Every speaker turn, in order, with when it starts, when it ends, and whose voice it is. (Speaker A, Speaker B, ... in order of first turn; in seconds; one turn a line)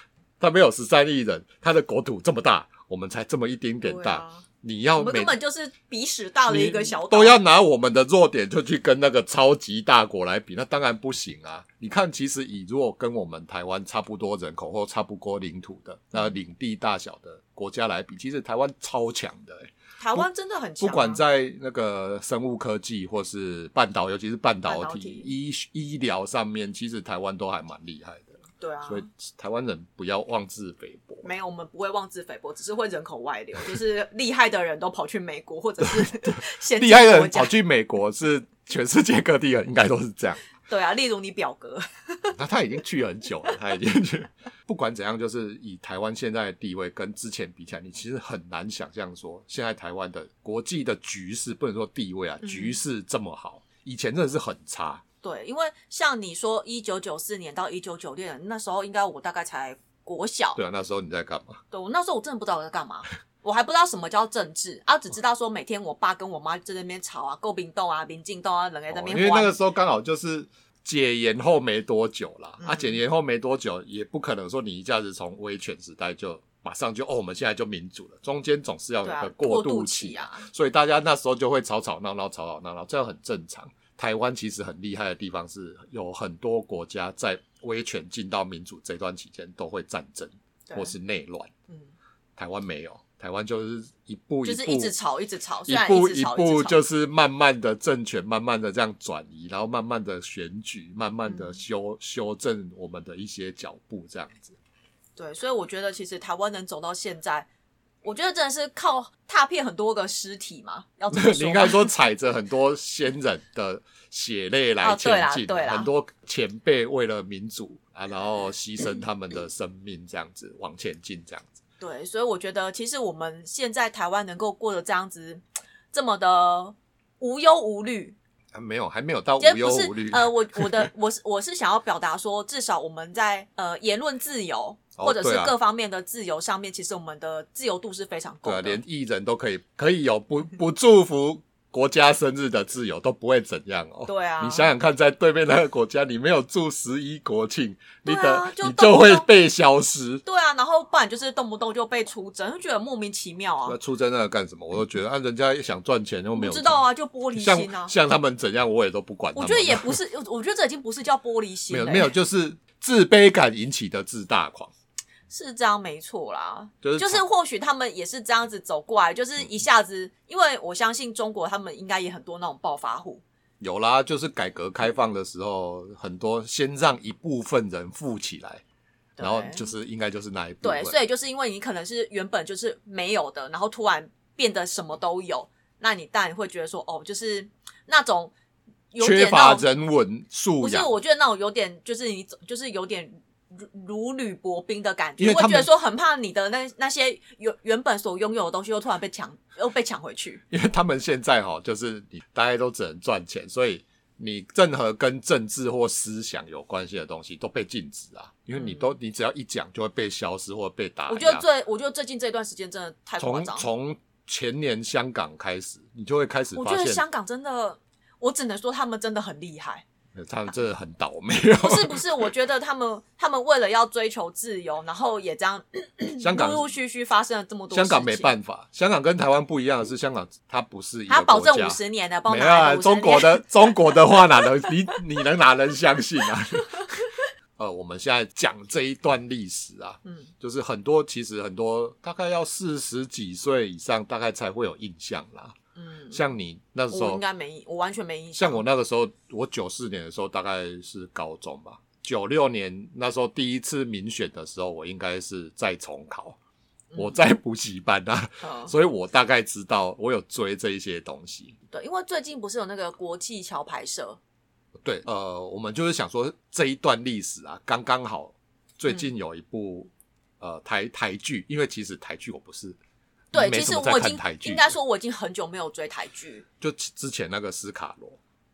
Speaker A: 0.4-5.3
Speaker B: 3.8-4.4
Speaker B: 5.0-7.4
Speaker A: 6.5-20.3
Speaker B: 20.0-21.2
Speaker A: 20.8-31.3
Speaker B: 24.6-25.3
Speaker B: 28.6-29.1
Speaker B: 31.2-37.5
Speaker A: 36.0-40.4
Speaker B: 40.7-42.4
Speaker A: 42.4-55.0
Speaker B: 52.4-52.8
Speaker B: 55.2-60.6
Speaker A: 60.5-61.6
Speaker B: 61.7-69.6
Speaker A: 68.9-91.5
Speaker B: 72.6-72.9
Speaker B: 79.0-80.5
Speaker B: 90.7-90.9
Speaker A: 92.4-94.9
Speaker B: 94.4-96.8
Speaker A: 95.7-104.6
Speaker B: 101.2-101.6
Speaker B: 105.2-107.5
Speaker B: 108.0-111.9
Speaker A: 111.1-121.6
Speaker B: 114.8-115.9
Speaker B: 121.8-128.2
Speaker A: 128.5-130.9
Speaker B: 129.4-138.8
Speaker A: 135.0-135.5
Speaker A: 138.4-150.2
Speaker B: 144.1-144.7
Speaker B: 148.0-149.3
Speaker B: 150.2-153.8
Speaker A: 153.7-156.8
Speaker B: 156.3-157.9
Speaker A: 157.3-160.0
Speaker B: 159.3-162.1
Speaker A: 161.7-164.7
Speaker B: 165.3-173.2
Speaker A: 166.8-167.2
Speaker A: 173.6-178.6
Speaker B: 179.2-179.7
Speaker A: 179.2-180.9
Speaker B: 180.6-188.3
Speaker B: 188.9-189.7
Speaker A: 189.0-190.9
Speaker B: 190.6-200.4
Speaker A: 195.2-195.7
Speaker A: 200.5-211.4
Speaker B: 208.6-208.9
Speaker B: 211.1-213.7
Speaker A: 213.2-217.0
Speaker B: 216.5-219.8
Speaker A: 220.1-222.3
Speaker B: 221.6-228.3
Speaker A: 226.2-226.7
Speaker A: 227.7-245.6
Speaker B: 231.1-233.9
Speaker B: 240.0-240.3
Speaker B: 245.8-246.2
Speaker A: 246.1-247.2
Speaker B: 246.9-248.6
Speaker A: 248.3-256.4
Speaker B: 256.9-257.2
Speaker A: 256.9-261.6
Speaker B: 258.4-258.7
Speaker B: 261.7-264.2
Speaker A: 264.8-272.8
Speaker A: 273.3-274.7
Speaker B: 273.3-276.4
Speaker A: 276.6-278.2